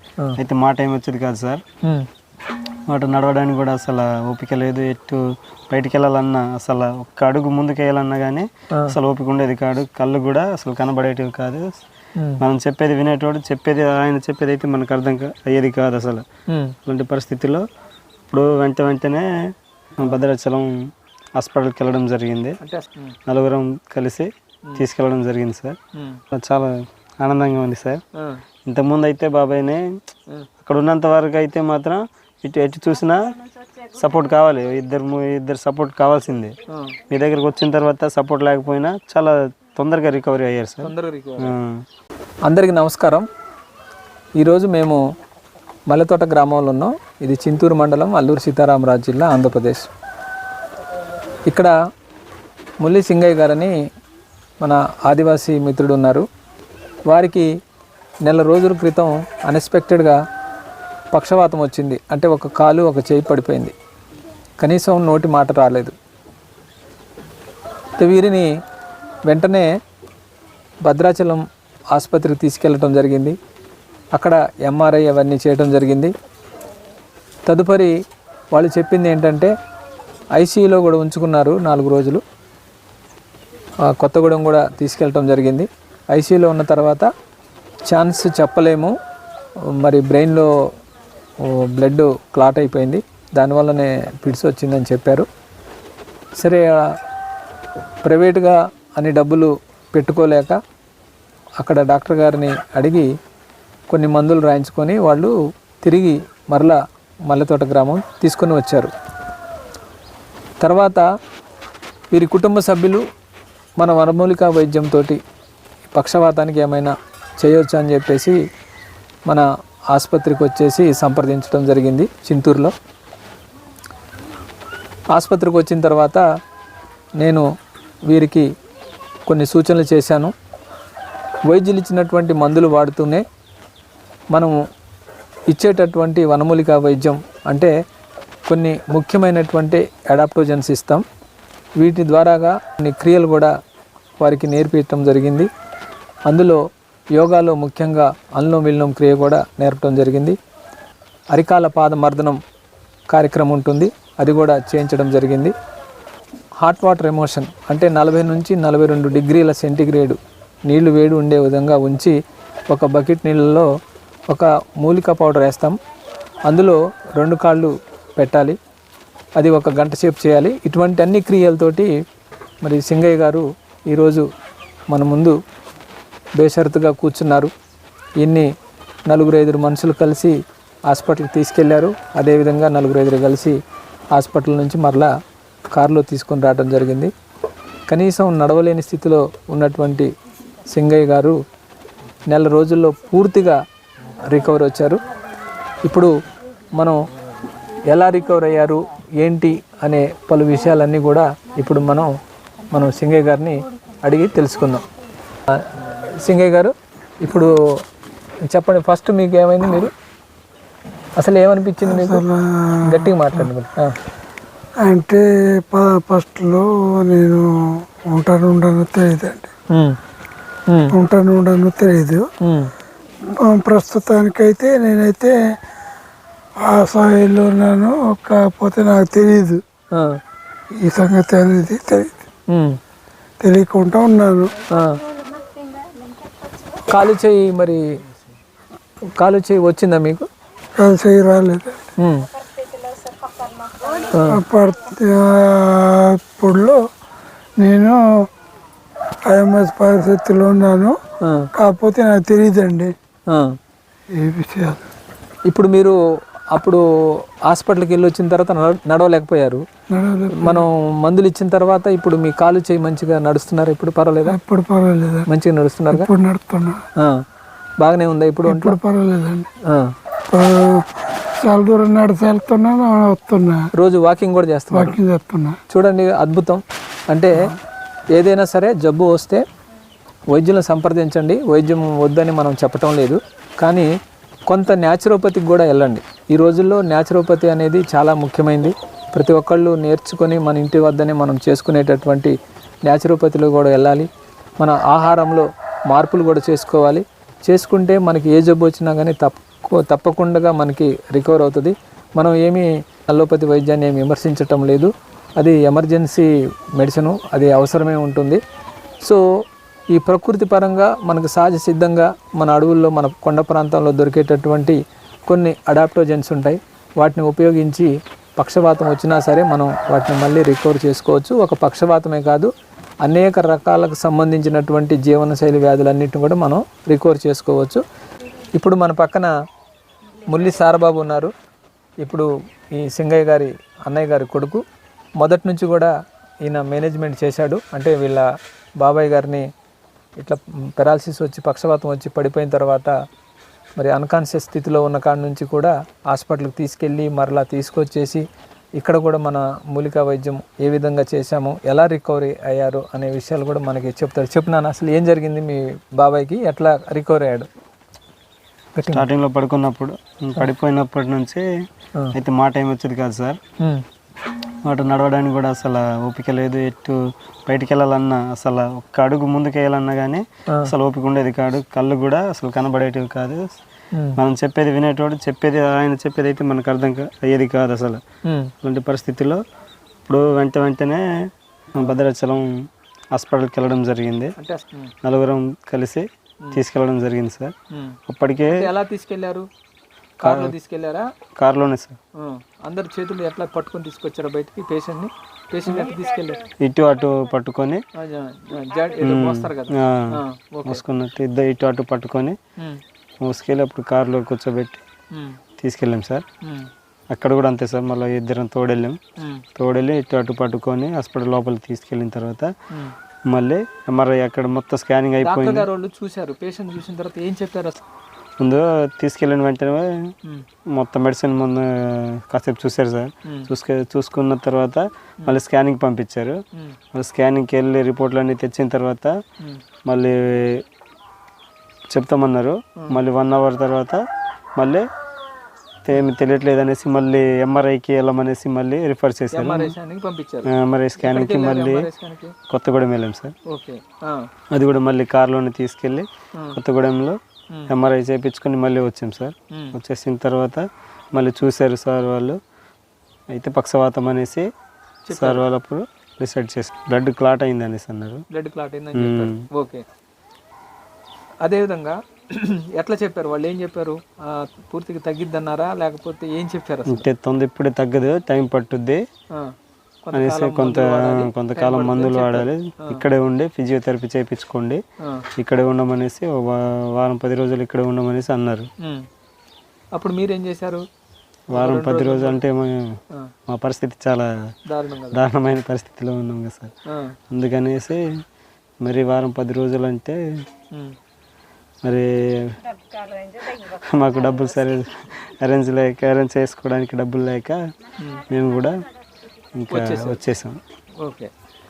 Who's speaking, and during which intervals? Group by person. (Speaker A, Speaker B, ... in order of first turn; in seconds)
Speaker A: 0.4-1.6, 2.9-5.2, 5.7-11.7, 12.4-16.2, 16.9-17.6, 18.3-19.3, 20.0-20.7, 21.4-22.6, 23.3-25.8, 26.3-28.0, 28.7-29.8, 30.6-33.4, 33.9-36.5, 37.1-41.8, 358.9-361.4, 362.1-363.4, 364.7-373.4, 374.2-378.0, 378.6-379.4, 380.1-381.0, 381.8-382.5, 383.1-384.3, 385.0-387.5, 388.1-388.7, 390.2-390.5, 391.4-392.0, 396.6-397.8, 399.0-400.1, 400.6-402.4, 403.2-404.8, 405.6-406.2, 407.1-409.0, 409.6-412.5, 413.3-415.7, 418.4-419.9, 420.8-426.4, 426.9-429.1, 429.9-430.6, 431.9-434.0, 434.6-434.9, 435.9-439.7, 440.5-441.9, 442.5-443.4, 444.5-447.2, 447.7-450.6, 451.1-452.4, 453.3-454.5, 455.1-458.2, 459.0-459.4, 466.9-469.0, 470.1-474.8, 475.4-478.7, 481.5-484.3, 485.1-486.7, 487.3-488.0, 488.8-490.2, 491.9-492.6, 493.4-497.6, 498.3-498.8, 499.6-500.6
Speaker B: 16.5-16.7, 22.6-23.1, 26.0-26.2, 40.8-41.5, 42.5-43.3, 44.4-45.0, 45.9-49.9, 52.8-53.7, 54.6-56.2, 57.1-57.5, 58.2-60.2, 61.1-63.7, 64.6-65.9, 68.0-68.5, 69.3-69.7, 70.9-73.4, 74.2-76.1, 77.5-77.9, 78.5-79.5, 80.4-82.2, 83.9-87.1, 87.9-88.9, 89.8-90.5, 91.4-95.3, 96.4-96.9, 98.0-100.6, 101.6-103.1, 103.9-106.8, 107.3-108.9, 110.6-111.0, 112.1-113.0, 113.8-115.2, 116.0-118.4, 119.3-122.7, 125.2-126.2, 127.2-127.5, 128.1-128.5, 129.3-130.3, 131.5-133.2, 135.5-137.7, 138.5-141.0, 141.8-143.5, 144.2-145.5, 146.3-146.6, 147.2-150.4, 151.3-152.4, 153.1-155.5, 156.6-162.2, 162.7-163.7, 164.3-165.8, 166.5-168.6, 169.4-171.9, 172.6-174.3, 174.9-175.4, 176.4-177.5, 178.2-178.5, 179.1-180.4, 180.9-183.6, 184.2-185.1, 185.8-187.1, 187.9-190.1, 190.7-191.4, 192.3-193.6, 194.3-195.0, 195.9-196.1, 197.9-202.1, 202.7-204.8, 205.5-207.6, 208.5-209.9, 211.2-212.2, 212.9-213.9, 222.4-222.7, 236.9-237.8, 239.2-240.3, 242.0-242.3, 244.1-244.4, 251.2-251.5, 255.5-256.0, 256.5-256.8, 257.5-259.6, 260.4-264.4, 265.3-266.1, 267.8-268.8, 273.8-274.9, 275.7-277.4, 278.2-279.4, 280.3-283.9, 284.5-292.4, 292.9-294.1, 294.6-308.4, 309.9-322.5, 323.0-327.8, 328.6-329.3, 330.3-331.3, 332.0-334.6, 335.2-335.9, 336.4-338.2, 338.8-339.4, 340.2-342.9, 343.8-348.2, 348.8-357.5, 358.8-359.1, 378.3-378.5, 384.4-384.9, 388.5-389.5, 390.2-391.1, 392.2-396.4, 398.0-400.8, 406.4-406.7, 409.2-409.4, 415.2-417.8, 439.3-440.5, 441.0-442.3, 443.5-444.2, 449.5-449.8, 455.1-455.4, 458.3-459.9, 461.4-467.1, 470.1-473.0, 479.9-480.9, 481.5-482.4, 484.7-485.2, 498.0-498.2, 499.7-500.2, 501.0-501.3
Speaker C: 211.8-213.5, 214.8-217.5, 218.1-219.5, 220.9-222.2, 223.4-225.4, 226.6-229.6, 230.8-232.2, 233.4-234.5, 240.8-241.8, 244.3-246.8, 247.6-248.0, 249.3-251.0, 251.6-252.9, 254.2-254.8, 259.9-260.7, 264.3-265.3, 265.9-266.8, 268.5-269.5, 270.3-273.7, 274.7-275.6